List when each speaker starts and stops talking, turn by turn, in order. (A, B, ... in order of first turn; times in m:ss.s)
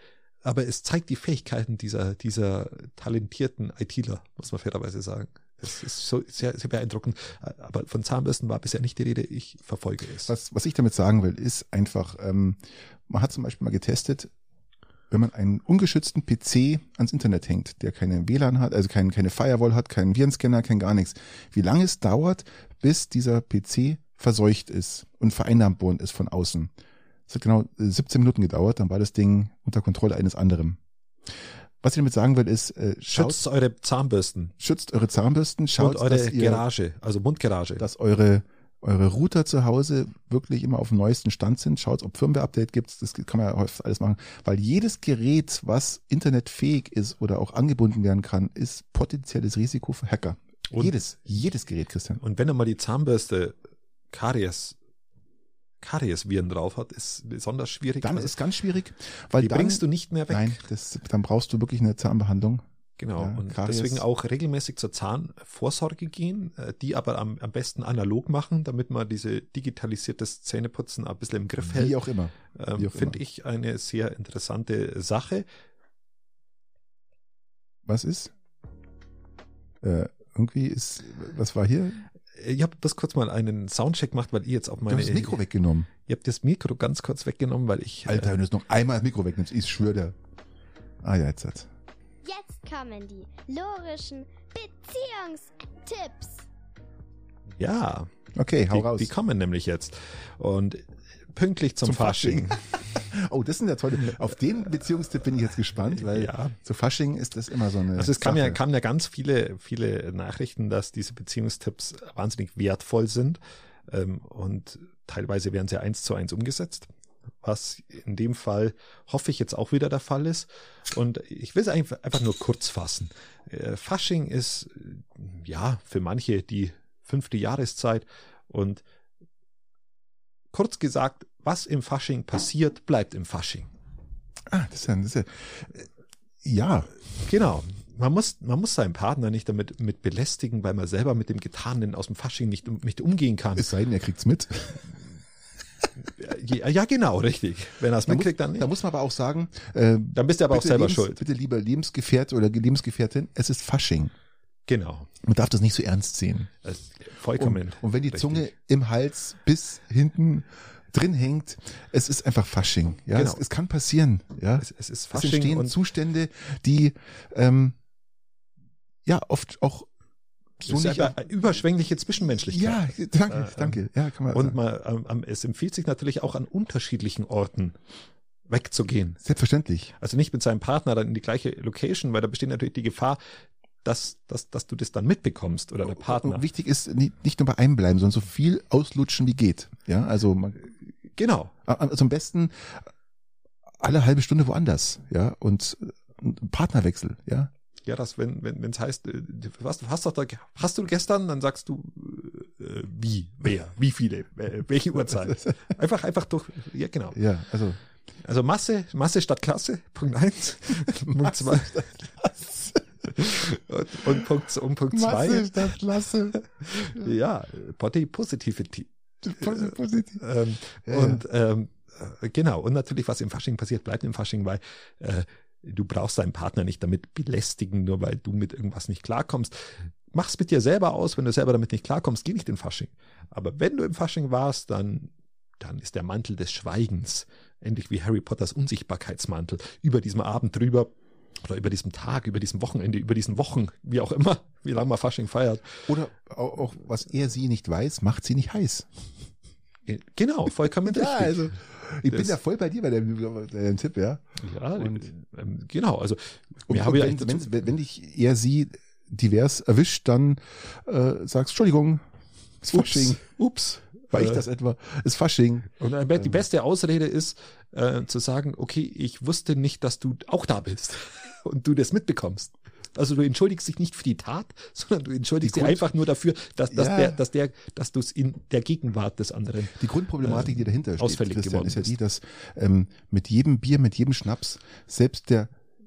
0:00.4-0:10.3 A
0:10.3-0:14.3 B
0:15.1-0:26.7 B
0:27.3-0:30.8 B
0:31.8-0:33.4 B
0:33.1-0:34.5 A
0:34.6-0:36.6 B
0:35.8-0:37.8 A
0:37.8-0:52.2 B
0:52.2-0:53.6 A
0:54.1-0:54.8 A
0:55.8-0:58.4 A
0:58.0-1:02.6 B
0:59.4-1:00.6 A
1:03.0-1:12.0 A
1:03.2-1:04.0 B
1:11.7-1:13.2 B
1:12.5-1:15.5 A
1:17.9-1:18.3 B
1:19.8-1:22.0 B
1:22.3-1:25.4 A
1:24.9-1:25.9 B
1:26.1-1:28.4 A
1:28.1-1:30.2 B
1:31.0-1:31.7 B
1:32.2-1:36.5 C
1:37.6-1:38.1 A
1:38.3-1:39.1 B
1:38.7-1:43.0 A
1:41.8-1:48.6 B
1:45.9-1:46.6 A
1:47.9-1:56.9 A
1:57.4-2:08.8 A
2:10.5-2:13.7 A
2:14.5-2:15.9 B
2:16.4-2:16.9 B
2:17.2-2:23.8 A
2:23.6-2:25.0 B
2:26.0-2:28.7 A
2:28.1-2:34.1 B
2:30.2-2:31.2 A
2:34.7-2:35.1 A
2:35.2-2:36.5 B
2:36.6-2:38.5 A
2:37.4-2:47.8 B
2:43.1-2:43.4 A
2:44.6-2:45.8 A
2:49.0-2:49.9 B
2:50.6-2:51.2 B
2:50.6-2:57.8 A
2:52.3-2:54.6 B
2:58.5-2:59.2 A
2:59.2-2:59.9 B
3:00.0-3:03.2 A
3:03.8-3:06.4 A
3:05.8-3:10.6 B
3:11.2-3:11.5 A
3:11.7-3:12.9 B
3:13.8-3:17.5 B
3:17.8-3:27.2 A
3:25.1-3:25.5 B
3:27.1-3:27.8 B
3:28.2-3:32.0 A
3:31.1-3:33.2 B
3:33.2-3:35.8 A
3:34.9-3:37.1 B
3:36.3-4:05.9 A
3:39.2-3:40.2 B
3:40.8-3:41.2 B
4:05.9-4:09.1 B
4:09.9-4:11.5 A
4:10.8-4:14.2 B
4:14.4-4:17.5 A
4:14.8-4:15.1 B
4:16.7-4:22.0 B
4:22.6-4:23.2 B
4:22.7-4:24.4 A
4:24.1-4:26.4 B
4:25.8-4:42.0 A
4:35.4-4:35.8 B
4:36.7-4:37.2 B
4:39.8-4:45.5 B